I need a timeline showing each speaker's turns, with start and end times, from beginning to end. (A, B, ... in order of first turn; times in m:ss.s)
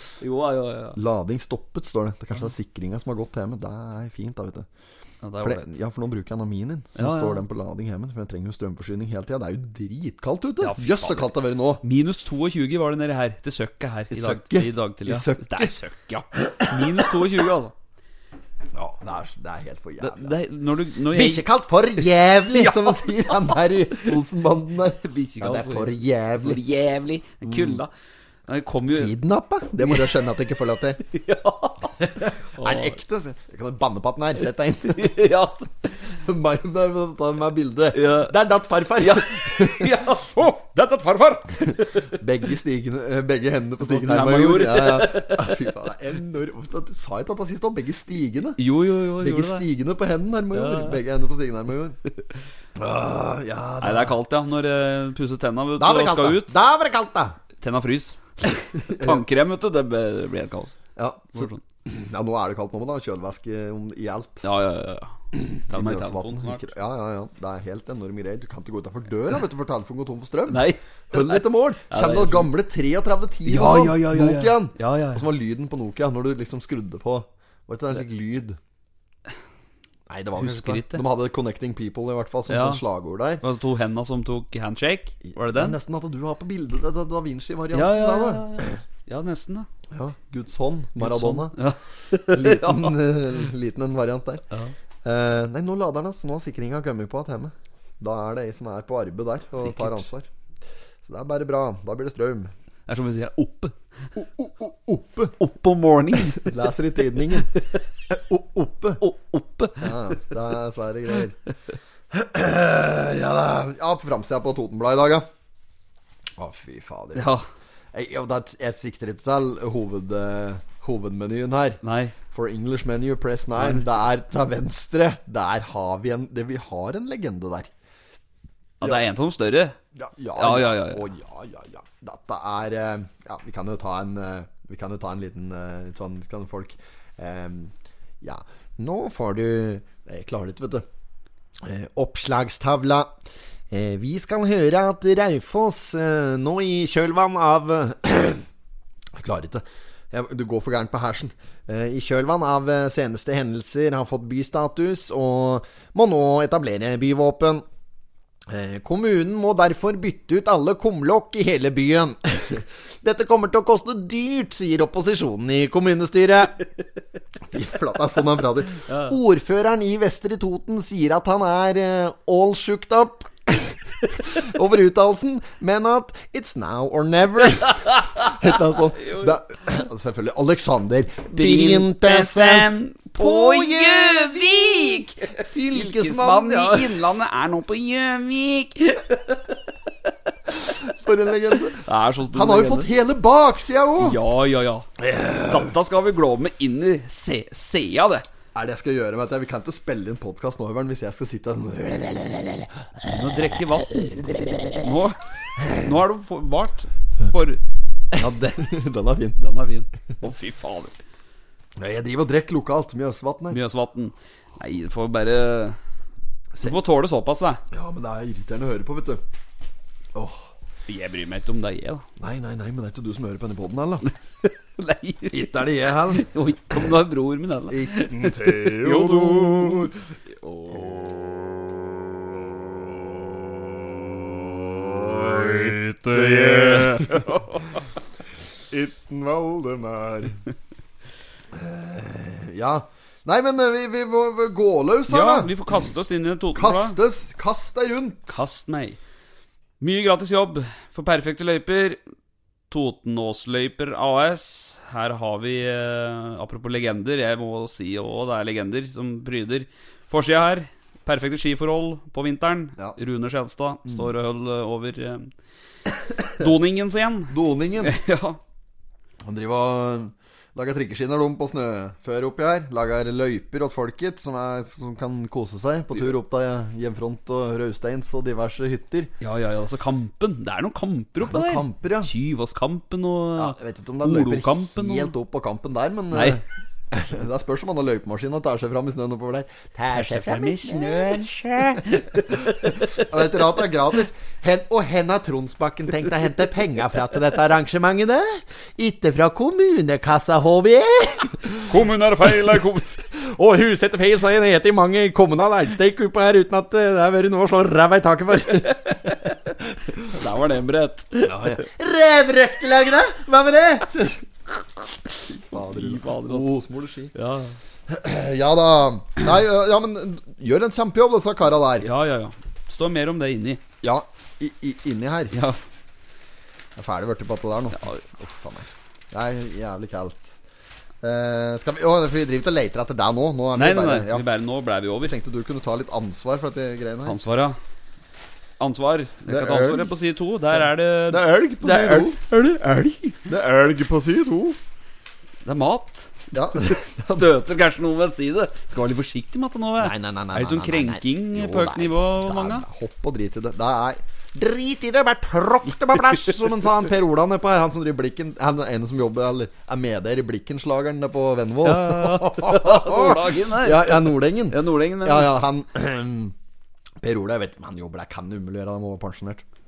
0:00.2-0:01.0 A
0:00.9-0:04.7 B
0:05.2-0:05.7 A
0:05.4-0:11.8 B
0:07.0-0:07.4 A
0:10.6-0:17.7 A
0:14.1-0:15.7 B
0:16.4-0:16.8 B
0:18.7-0:20.4 B
0:20.0-0:21.4 A
0:21.0-0:26.6 B
0:22.5-0:23.6 A
0:25.0-0:27.9 A
0:27.4-0:27.8 B
0:28.5-0:29.1 A
0:28.9-0:31.0 B
0:29.8-0:30.1 A
0:31.0-0:33.0 A
0:32.0-0:35.2 B
0:34.9-0:36.1 A
0:36.1-0:40.0 B
0:37.9-0:38.3 A
0:39.0-0:42.2 A
0:42.1-0:48.6 B
0:43.8-0:45.6 A
0:48.6-0:49.6 A
0:49.2-0:52.0 B
0:50.5-0:51.0 A
0:52.7-0:54.2 B
0:53.8-0:56.6 A
0:55.8-0:57.4 B
0:57.6-1:00.8 A
0:58.7-0:59.2 B
1:01.0-1:04.4 B
1:01.3-1:01.6 A
1:04.4-1:05.1 A
1:05.3-1:18.6 B
1:05.7-1:06.7 A
1:10.5-1:12.5 A
1:13.4-1:15.3 A
1:20.1-1:23.4 B
1:20.4-1:21.0 A
1:22.5-1:22.8 A
1:23.4-1:25.8 A
1:25.2-1:28.8 B
1:27.7-1:29.7 A
1:29.9-1:31.5 B
1:31.0-1:33.2 A
1:32.2-1:34.4 B
1:35.0-1:40.3 B
1:39.5-1:40.0 A
1:41.0-1:42.5 B
1:42.9-1:43.7 A
1:44.1-1:45.4 B
1:45.4-1:46.5 A
1:46.2-1:47.5 B
1:48.1-1:49.0 B
1:49.0-1:50.3 A
1:49.8-1:51.4 B
1:52.1-1:55.3 B
1:56.4-1:57.3 B
1:57.1-1:57.4 A
1:57.9-2:01.8 B
2:01.8-2:02.2 A
2:02.3-2:07.7 B
2:03.6-2:03.8 A
2:08.8-2:09.8 A
2:09.9-2:20.8 B
2:10.3-2:11.0 A
2:21.6-2:23.1 B
2:23.7-2:28.4 B
2:29.1-2:37.6 B
2:38.5-2:46.6 B
2:47.5-3:07.1 B
2:48.8-2:49.2 A
2:57.6-2:59.4 A
3:01.3-3:09.6 A
3:10.7-3:14.2 B
3:11.8-3:12.9 A
3:14.0-3:14.9 A
3:15.0-3:15.7 B
3:15.4-3:18.2 A
3:18.5-3:24.5 B
3:23.0-3:27.6 A
3:28.1-3:29.4 B
3:28.2-3:28.6 A
3:29.4-3:30.9 A
3:31.8-3:33.6 B
3:33.5-3:35.8 A
3:36.6-3:37.6 A
3:37.7-3:39.2 B
3:40.1-3:40.5 B
3:40.9-3:42.0 A
3:42.2-3:44.0 B
3:44.4-3:45.5 A
3:45.3-3:46.3 B
3:46.1-3:49.9 A
3:47.7-3:51.3 B
3:54.7-3:57.5 B
3:55.8-3:57.6 A
3:58.7-4:00.4 B
4:01.5-4:05.5 B
4:05.1-4:07.0 A
4:06.5-4:08.4 B
4:08.3-4:09.0 A
4:09.8-4:12.0 A
4:12.7-4:25.3 A
4:26.2-4:28.4 A
4:27.3-4:27.9 B
4:29.2-4:39.1 B
4:39.2-4:45.1 A
4:41.2-4:42.1 B
4:43.4-4:51.9 B
4:46.1-4:46.4 A
4:49.9-4:53.1 A
4:52.9-5:01.6 B
5:01.6-5:03.0 A
5:03.0-5:10.1 B
5:08.7-5:09.4 A
5:10.0-5:11.6 A
5:11.2-5:14.3 B
5:15.1-5:17.1 B
5:15.5-5:16.5 A
5:17.1-5:17.6 A
5:17.9-5:21.9 B
5:21.8-5:23.6 A
5:23.8-5:25.3 B
5:25.3-5:25.6 A
5:26.8-5:30.3 B
5:31.0-5:34.2 B
5:33.5-5:35.2 A
5:35.0-5:37.2 B
5:37.0-5:37.6 A
5:38.6-5:43.2 A
5:39.3-5:39.9 B
5:41.1-5:42.2 B
5:43.2-5:44.6 B
5:45.4-5:52.6 A
5:46.3-5:47.3 B
5:49.8-6:06.3 B
6:01.6-6:05.4 A
6:07.0-6:09.4 B